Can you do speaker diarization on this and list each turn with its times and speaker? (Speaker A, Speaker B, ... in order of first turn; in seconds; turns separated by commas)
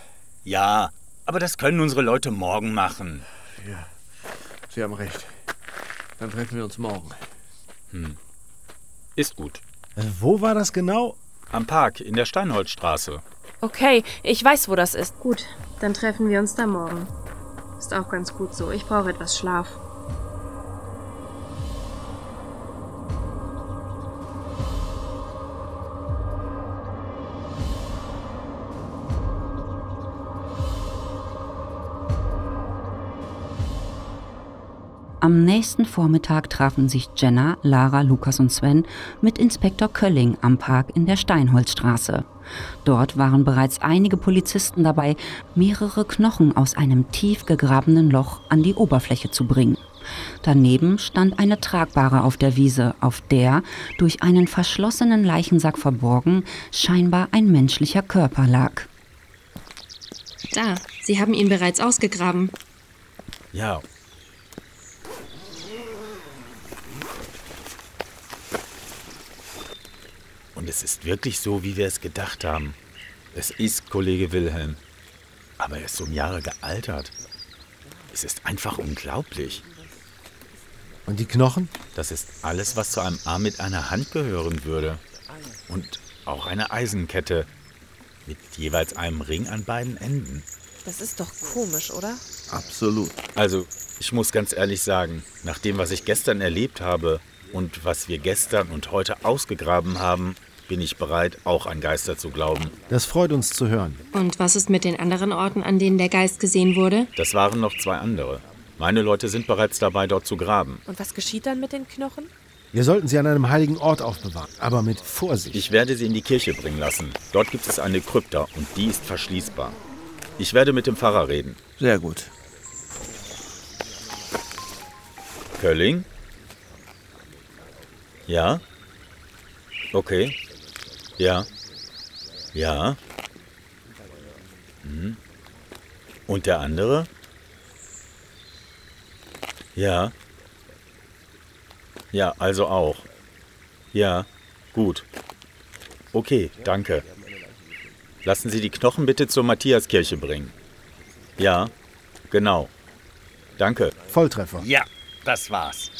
Speaker A: 0.4-3.2, Speaker B: 3.6-3.9, Speaker B: 4.7-5.3, Speaker B: 6.2-7.2, Speaker A: 7.9-8.2, Speaker A: 9.2-9.6, Speaker C: 9.9-11.2, Speaker A: 11.5-13.2, Speaker D: 13.6-15.1, Speaker E: 15.2-17.1, Speaker E: 17.8-19.8, Speaker F: 35.2-42.3, Speaker F: 42.8-49.8, Speaker F: 50.4-58.9, Speaker E: 60.5-62.5, Speaker A: 63.5-63.8, Speaker A: 70.5-72.8, Speaker A: 73.3-74.8, Speaker A: 75.6-77.1, Speaker A: 78.1-79.6, Speaker C: 81.0-81.7, Speaker A: 81.9-85.0, Speaker A: 85.7-87.5, Speaker A: 88.2-90.5, Speaker D: 90.8-92.2, Speaker B: 92.5-93.2, Speaker A: 93.3-102.7, Speaker C: 102.9-104.0, Speaker E: 104.1-107.1, Speaker A: 107.2-110.8, Speaker D: 110.8-112.3, Speaker C: 112.7-115.6, Speaker A: 115.5-119.8, Speaker A: 120.4-121.6, Speaker B: 121.8-122.3, Speaker A: 125.6-126.0, Speaker A: 128.3-128.6, Speaker A: 129.9-130.4, Speaker A: 131.2-131.5, Speaker A: 132.5-133.0, Speaker A: 134.8-135.2, Speaker A: 136.3-137.1, Speaker A: 139.8-140.1, Speaker A: 142.1-143.1, Speaker A: 143.9-145.1, Speaker A: 146.1-147.1, Speaker A: 148.2-150.5, Speaker A: 151.4-151.7, Speaker A: 152.3-152.7, Speaker A: 153.6-153.9, Speaker C: 154.1-154.7, Speaker A: 154.6-155.9